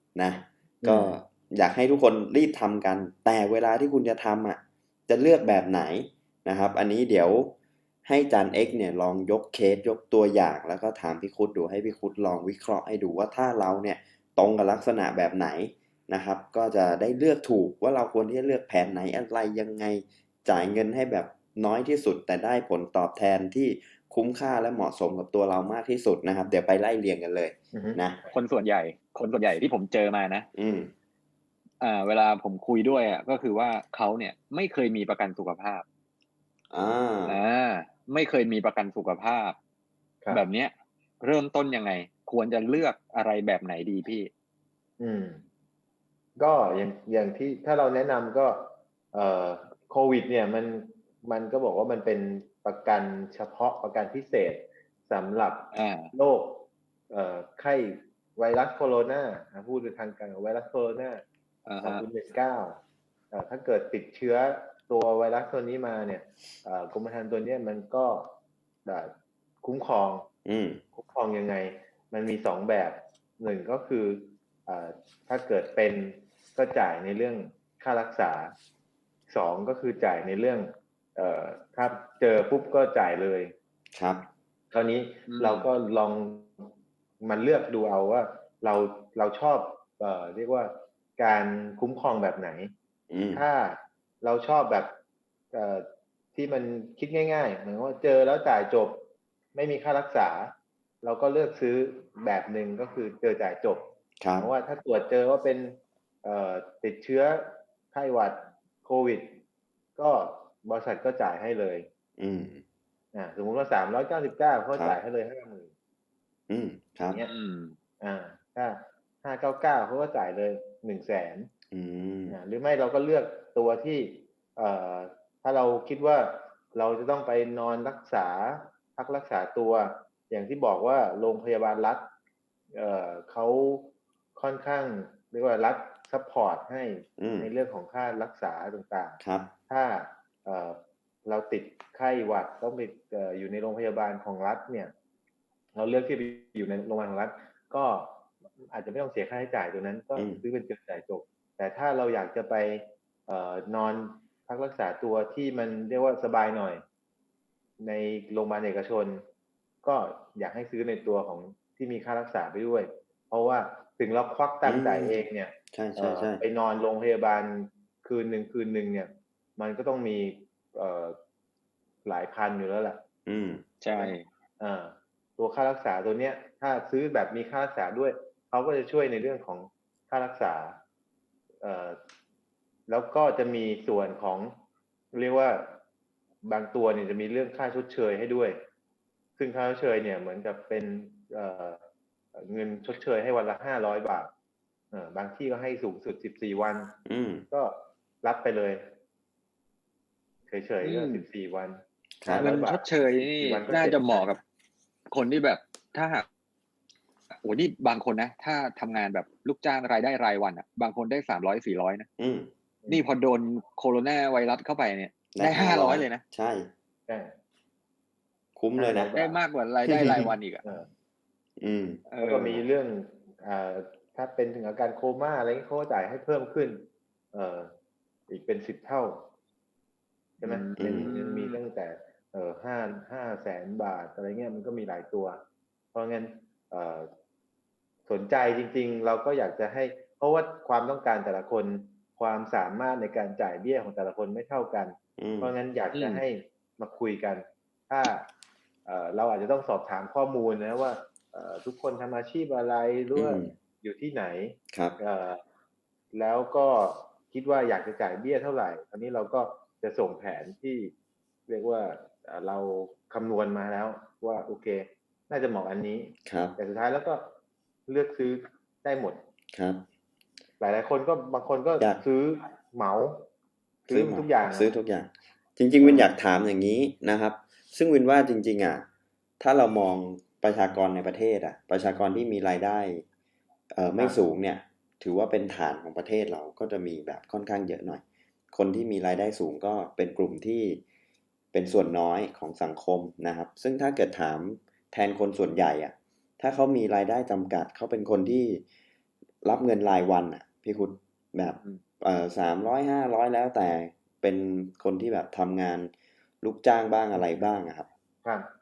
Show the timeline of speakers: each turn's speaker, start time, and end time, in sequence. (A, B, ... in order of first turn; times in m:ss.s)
0:00.2-0:28.2 A
0:00.8-0:01.1 B
0:27.7-0:28.0 B
0:28.3-0:30.5 C
0:30.5-0:30.9 A
0:31.8-0:35.8 C
0:36.7-0:37.4 A
0:37.2-0:39.6 C
0:40.3-0:44.3 C
0:45.0-0:45.4 B
0:46.4-1:01.2 B
0:55.7-0:56.1 C
1:01.6-1:02.0 C
1:01.8-1:02.8 B
1:03.3-1:08.3 B
1:08.8-1:10.3 B
1:10.4-1:10.8 A
1:10.9-1:18.5 B
1:19.3-1:23.5 B
1:23.9-1:24.2 A
1:24.7-1:32.7 B
1:25.3-1:25.7 C
1:33.1-1:33.4 A
1:33.3-1:34.9 B
1:35.5-1:49.4 B
1:44.2-1:44.5 A
1:50.0-1:51.9 B
1:52.2-1:52.6 A
1:53.1-1:55.7 B
1:56.5-1:57.2 A
1:57.3-1:57.8 C
1:58.0-2:01.5 B
2:01.7-2:02.4 A
2:02.3-2:12.1 B
2:12.7-2:24.9 B
2:17.2-2:17.5 A
2:19.2-2:19.5 A
2:25.7-2:36.8 B
2:30.2-2:30.4 A
2:37.8-2:39.2 B
2:39.8-2:51.2 B
2:44.6-2:46.4 A
2:52.0-2:53.0 B
2:53.2-2:53.6 A
2:53.8-2:54.2 C
2:53.9-3:00.8 B
3:01.6-3:02.0 B
3:02.9-3:04.5 B
3:05.1-3:05.8 B
3:06.4-3:08.6 B
3:09.4-3:11.8 B
3:12.3-3:14.3 B
3:14.9-3:16.9 B
3:17.0-3:17.4 A
3:17.5-3:18.9 B
3:20.5-3:24.4 B
3:20.8-3:21.2 C
3:22.2-3:22.5 A
3:22.4-3:24.4 C
3:25.1-3:26.2 C
3:27.4-3:32.1 C
3:32.2-3:32.5 A
3:32.9-3:36.2 C
3:35.3-3:36.7 A
3:37.1-3:37.3 B
3:38.6-3:39.1 A
3:38.8-3:39.4 B
3:39.1-3:40.6 C
3:39.8-3:40.3 A
3:40.0-3:40.9 B
3:41.6-3:42.0 A
3:42.1-3:42.6 C
3:42.2-3:47.7 B
3:48.3-3:49.2 B
3:50.4-3:55.4 B
3:50.4-3:51.6 C
3:50.8-3:51.1 A
3:55.9-3:57.1 B
3:58.1-4:08.3 B
4:05.2-4:05.5 A
4:05.9-4:06.2 C
4:08.8-4:15.4 B
4:13.1-4:13.5 A
4:14.7-4:15.0 A
4:16.1-4:20.9 B
4:21.5-4:27.3 B
4:26.2-4:26.6 A
4:27.9-4:29.2 B
4:29.5-4:29.8 A
4:30.6-4:33.2 B
4:33.9-4:34.7 B
4:33.9-4:38.8 A
4:35.8-4:36.1 B
4:39.4-4:43.0 A
4:43.7-4:50.8 A
4:51.5-4:58.6 A
4:59.4-5:05.9 A
5:06.4-5:07.9 A